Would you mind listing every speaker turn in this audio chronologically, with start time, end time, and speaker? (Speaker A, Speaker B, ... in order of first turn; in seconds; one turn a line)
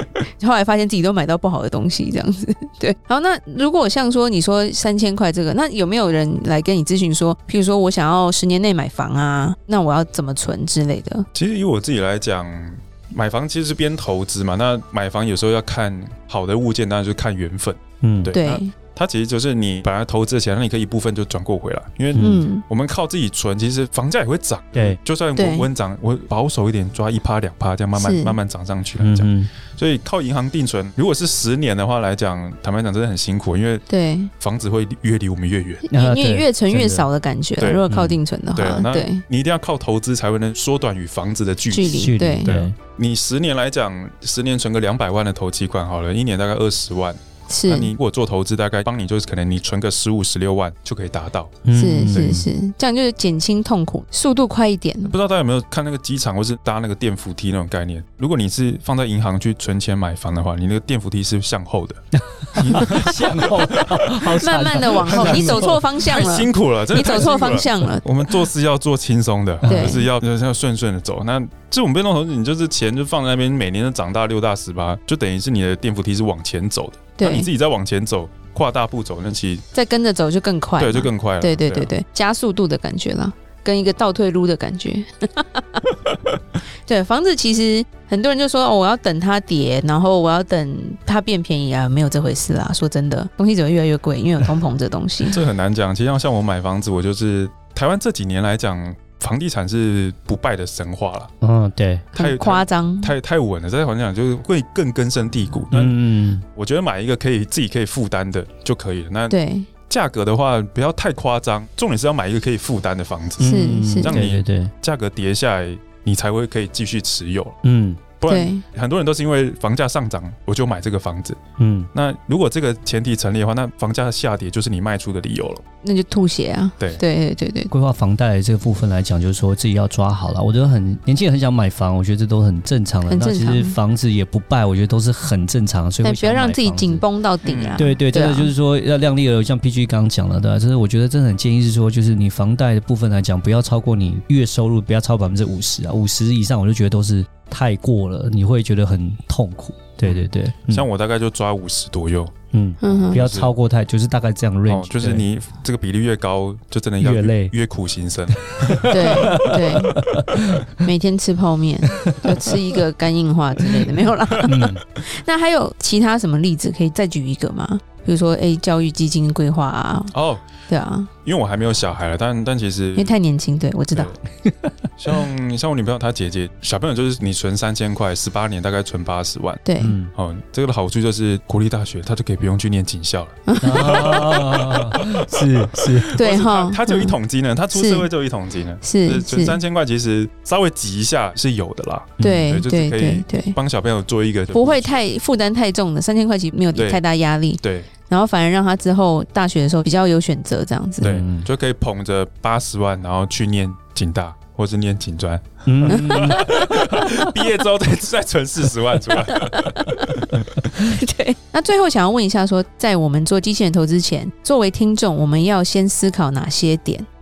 Speaker A: 0.3-11.3
Speaker B: 11.3-33.9
Speaker C: 18.0-18.4
Speaker A: 18.3-18.7
Speaker C: 22.1-22.4
Speaker A: 22.2-22.6
Speaker A: 25.4-25.7
Speaker A: 27.9-28.4
Speaker C: 29.0-29.5
Speaker A: 33.9-34.3
Speaker B: 34.4-35.8
Speaker A: 35.9-39.2
Speaker C: 35.9-37.1
Speaker B: 37.6-37.9
Speaker C: 37.9-38.2
Speaker B: 38.5-52.4
Speaker A: 41.7-42.5
Speaker C: 41.9-42.8
Speaker A: 47.5-47.9
Speaker C: 51.6-52.5
Speaker A: 51.7-55.1
Speaker B: 55.0-62.0
Speaker C: 62.3-66.0
Speaker B: 62.5-79.7
Speaker A: 64.4-68.0
Speaker C: 69.6-70.0
Speaker A: 69.7-70.1
Speaker A: 77.2-77.5
Speaker A: 79.7-85.8
Speaker B: 80.8-81.9
Speaker A: 86.9-95.4
Speaker B: 95.3-101.3
Speaker C: 101.4-102.0
Speaker A: 102.1-103.2
Speaker B: 102.2-106.0
Speaker C: 105.7-106.4
Speaker B: 106.5-109.3
Speaker A: 109.3-109.7
Speaker B: 109.9-117.6
Speaker C: 113.4-114.7
Speaker A: 113.4-114.2
Speaker C: 117.6-118.0
Speaker B: 118.2-121.4
Speaker A: 118.3-118.6
Speaker C: 121.6-121.9
Speaker B: 121.9-125.6
Speaker A: 125.8-127.7
Speaker C: 127.7-137.0
Speaker A: 133.1-133.8
Speaker A: 136.0-138.5
Speaker B: 137.4-137.8
Speaker C: 137.8-150.9
Speaker B: 150.0-153.5
Speaker C: 152.5-155.2
Speaker A: 152.8-153.3
Speaker B: 154.7-159.3
Speaker C: 157.0-157.5
Speaker C: 158.6-160.7
Speaker A: 158.9-159.9
Speaker A: 160.8-170.1
Speaker C: 162.1-162.5
Speaker C: 164.4-164.8
Speaker B: 170.1-170.5
Speaker A: 170.7-171.1
Speaker B: 171.2-173.1
Speaker A: 173.0-174.1
Speaker B: 173.9-174.2
Speaker B: 175.0-179.6
Speaker A: 179.7-179.9
Speaker C: 179.8-180.1
Speaker B: 180.1-185.4
Speaker A: 183.5-184.3
Speaker C: 183.6-186.1
Speaker B: 186.0-194.9
Speaker A: 186.1-187.2
Speaker A: 187.7-188.1
Speaker A: 188.8-189.6
Speaker C: 192.2-192.6
Speaker A: 192.2-193.6
Speaker A: 194.5-201.2
Speaker B: 196.8-197.0
Speaker B: 197.6-197.9
Speaker C: 201.0-201.5
Speaker B: 201.0-209.9
Speaker C: 205.7-206.5
Speaker A: 205.9-207.0
Speaker A: 209.1-217.1